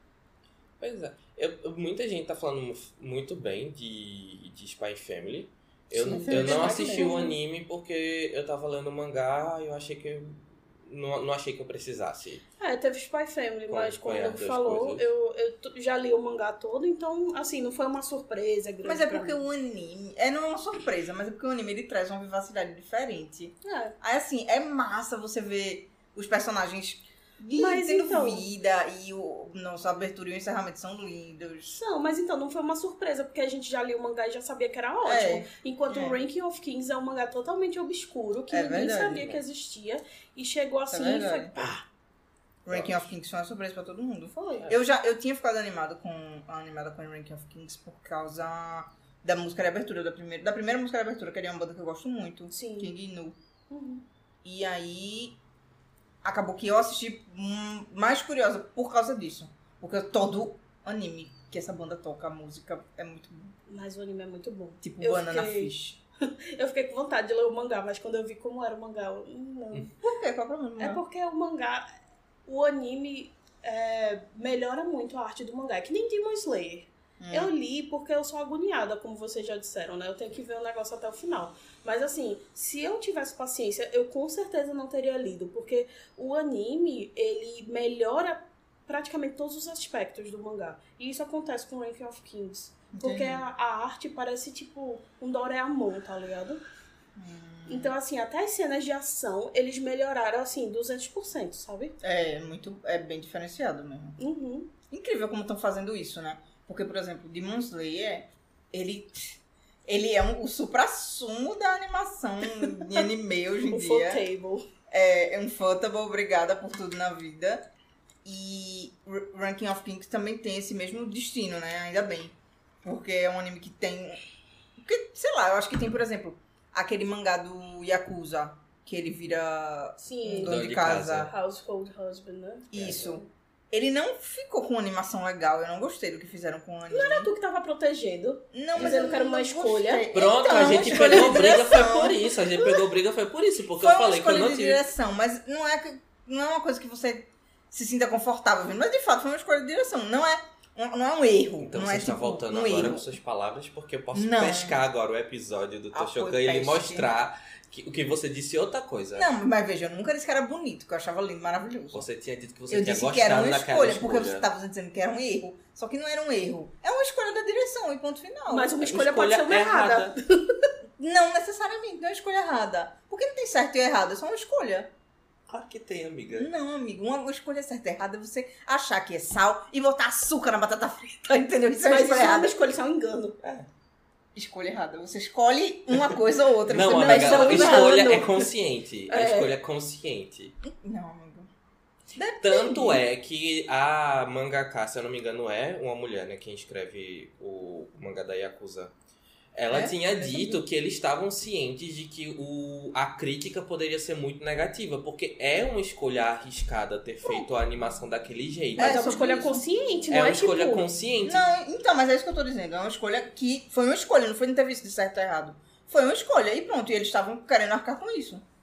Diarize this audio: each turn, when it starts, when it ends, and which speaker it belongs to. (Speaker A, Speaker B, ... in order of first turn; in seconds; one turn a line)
Speaker A: 0.8-12.4
Speaker B: 6.0-7.2
Speaker C: 6.0-7.3
Speaker C: 12.6-19.4
Speaker A: 13.7-15.1
Speaker B: 18.8-31.8
Speaker C: 23.6-23.9
Speaker C: 27.6-28.4
Speaker C: 31.7-41.8
Speaker B: 35.0-36.2
Speaker B: 38.5-39.3
Speaker B: 40.9-41.5
Speaker B: 42.6-53.4
Speaker A: 42.7-43.0
Speaker C: 44.4-44.7
Speaker C: 52.5-52.9
Speaker C: 53.7-54.0
Speaker B: 54.4-55.4
Speaker B: 56.2-63.5
Speaker C: 63.7-65.7
Speaker B: 64.8-66.0
Speaker C: 66.2-69.9
Speaker B: 70.0-71.0
Speaker C: 70.8-71.9
Speaker C: 72.5-96.6
Speaker B: 77.2-77.5
Speaker B: 92.9-93.4
Speaker B: 97.2-97.9
Speaker C: 97.7-102.0
Speaker B: 102.0-104.2
Speaker C: 104.2-104.7
Speaker B: 104.9-114.2
Speaker C: 112.6-113.0
Speaker C: 113.7-114.7
Speaker B: 114.9-117.7
Speaker B: 118.2-124.2
Speaker B: 124.8-131.3
Speaker C: 130.0-130.6
Speaker A: 130.4-131.3
Speaker C: 131.2-133.3
Speaker B: 132.7-137.3
Speaker C: 136.9-142.8
Speaker B: 138.5-142.2
Speaker A: 138.7-139.0
Speaker A: 140.1-144.8
Speaker B: 143.8-153.1
Speaker A: 151.6-159.3
Speaker B: 154.1-154.8
Speaker B: 155.9-157.1
Speaker B: 159.2-162.1
Speaker A: 161.9-164.5
Speaker B: 162.7-168.7
Speaker C: 168.5-170.7
Speaker A: 168.8-170.2
Speaker B: 171.0-174.9
Speaker A: 175.5-176.5
Speaker B: 176.3-182.6
Speaker C: 181.8-183.4
Speaker A: 183.4-183.7
Speaker B: 184.3-188.1
Speaker A: 186.7-190.6
Speaker C: 186.8-188.5
Speaker C: 189.1-189.5
Speaker B: 190.6-191.5
Speaker B: 192.1-193.0
Speaker A: 192.4-198.9
Speaker A: 199.5-209.1
Speaker B: 199.7-200.6
Speaker B: 208.8-209.7
Speaker C: 208.8-211.0
Speaker A: 210.1-211.5
Speaker B: 211.2-218.4